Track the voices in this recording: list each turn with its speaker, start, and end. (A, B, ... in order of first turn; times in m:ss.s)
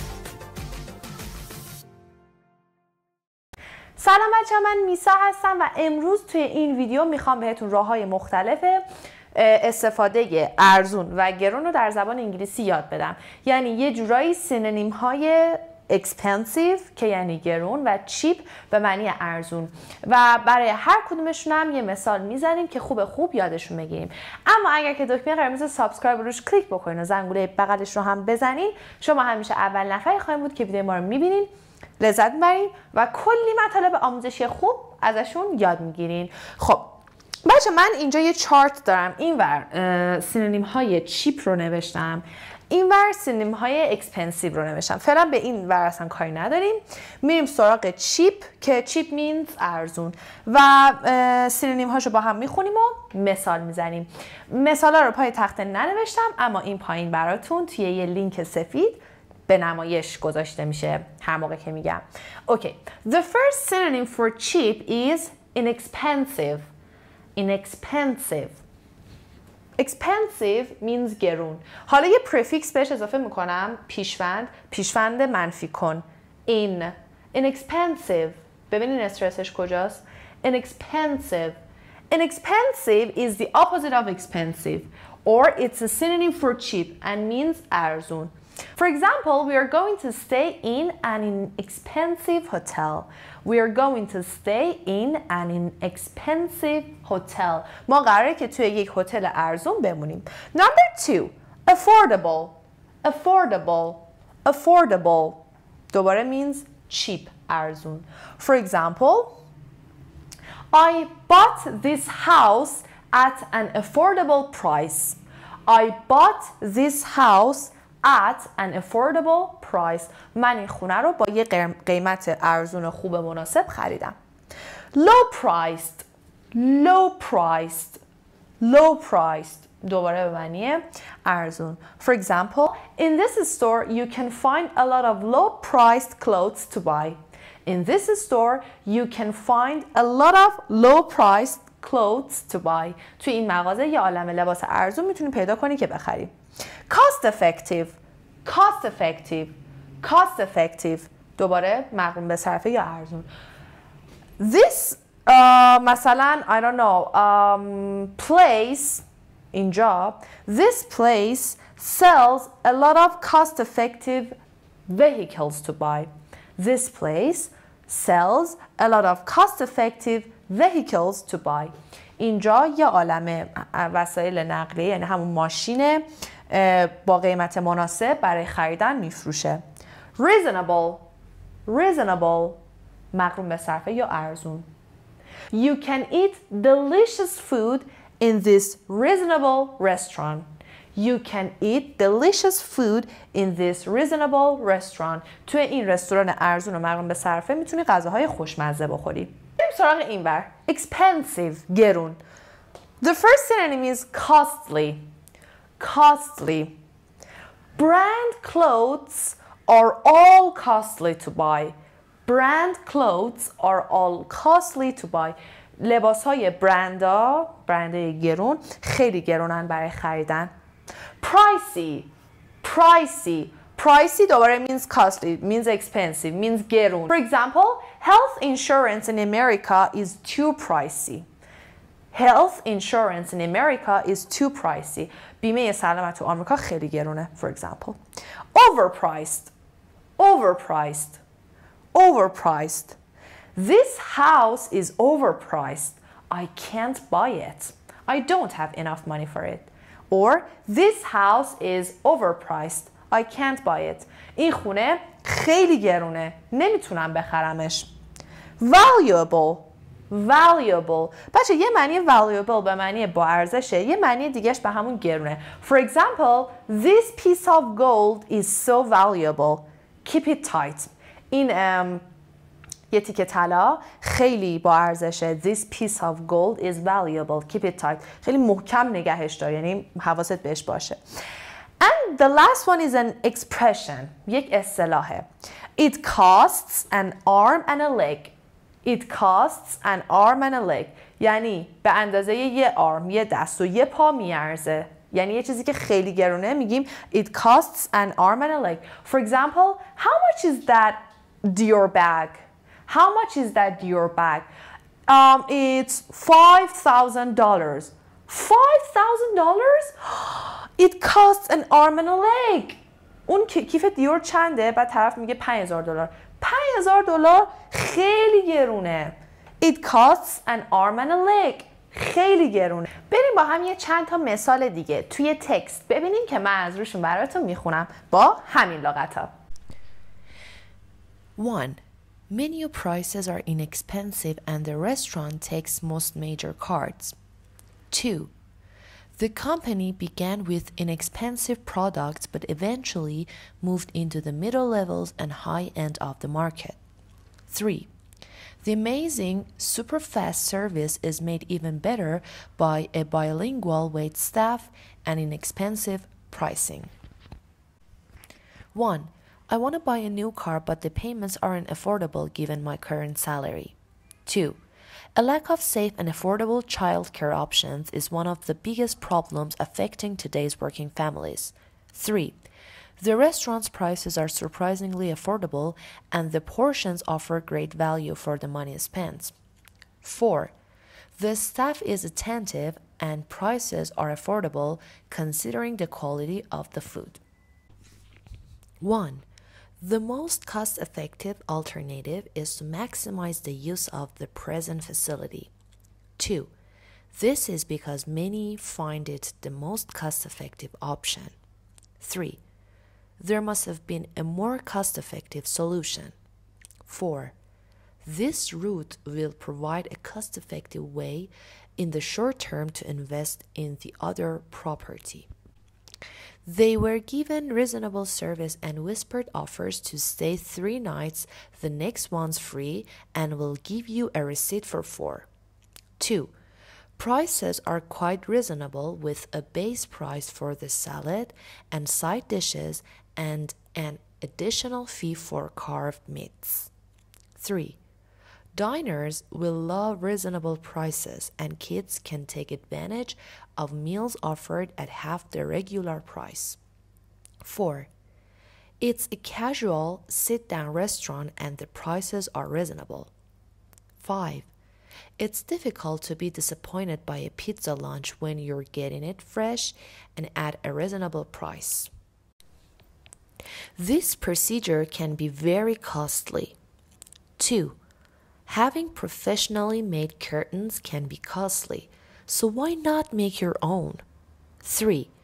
0:04.0-1:06.7 A
1:07.4-1:08.6 A
1:09.8-1:21.6 A
1:22.1-1:49.4 A
1:50.7-2:04.2 A
2:04.9-2:08.0 A
2:08.6-2:26.3 A
2:26.9-2:33.3 A
2:34.4-2:44.4 A
2:44.9-2:59.6 A
3:00.2-3:01.0 A
3:01.6-3:02.6 A
3:03.1-3:04.7 A
3:05.5-3:22.2 A
3:23.0-3:25.0 A
3:25.8-3:26.8 A
3:27.8-3:31.7 A
3:32.2-3:40.5 A
3:41.2-3:42.1 A
3:42.6-3:51.2 A
3:52.1-3:58.0 A
3:58.5-3:59.5 A
4:00.2-4:01.2 A
4:01.9-4:03.0 A
4:03.6-4:17.9 A
4:18.6-4:32.0 A
4:32.9-4:41.0 A
4:41.8-5:04.5 A
5:05.1-5:29.3 A
5:31.4-5:31.8 B
5:32.3-5:37.1 B
5:34.4-5:35.0 A
5:35.6-5:37.1 A
5:37.9-5:38.3 B
5:38.0-5:38.2 A
5:39.2-5:44.3 B
5:40.1-5:40.9 A
5:42.1-5:46.4 A
5:44.9-5:46.7 B
5:47.5-5:47.8 B
5:48.6-5:56.9 B
5:52.6-5:56.5 A
5:58.7-6:03.7 B
6:04.2-6:04.6 B
6:05.2-6:12.3 B
6:11.4-6:12.0 A
6:13.0-6:19.3 B
6:20.0-6:20.5 B
6:21.2-6:27.2 B
6:24.6-6:25.7 A
6:26.5-6:27.2 A
6:28.8-6:29.2 B
6:29.8-6:35.5 B
6:32.5-6:34.1 A
6:34.8-6:35.4 A
6:36.2-6:36.5 B
6:37.1-6:41.3 B
6:37.9-6:40.8 A
6:42.0-6:42.4 B
6:42.0-6:42.3 A
6:43.2-6:46.1 B
6:43.6-6:43.8 A
6:46.9-6:47.3 B
6:48.0-6:55.2 B
6:56.5-7:05.2 B
7:01.2-7:01.6 A
7:04.7-7:05.2 A
7:06.0-7:06.3 B
7:07.0-7:16.6 B
7:13.4-7:14.5 A
7:16.0-7:16.6 A
7:17.4-7:17.8 B
7:18.6-7:26.6 B
7:20.1-7:20.5 A
7:21.1-7:23.1 A
7:23.6-7:24.2 A
7:24.8-7:26.5 A
7:27.4-7:27.9 B
7:27.4-7:27.8 A
7:28.8-7:32.7 A
7:28.8-7:33.1 B
7:34.0-7:34.5 B
7:35.2-7:41.8 B
7:36.3-7:41.8 A
7:43.8-7:46.5 B
7:45.5-7:46.2 A
7:47.4-7:47.8 B
7:48.5-7:53.9 B
7:51.6-7:52.4 A
7:54.6-7:55.0 B
7:54.7-7:55.0 A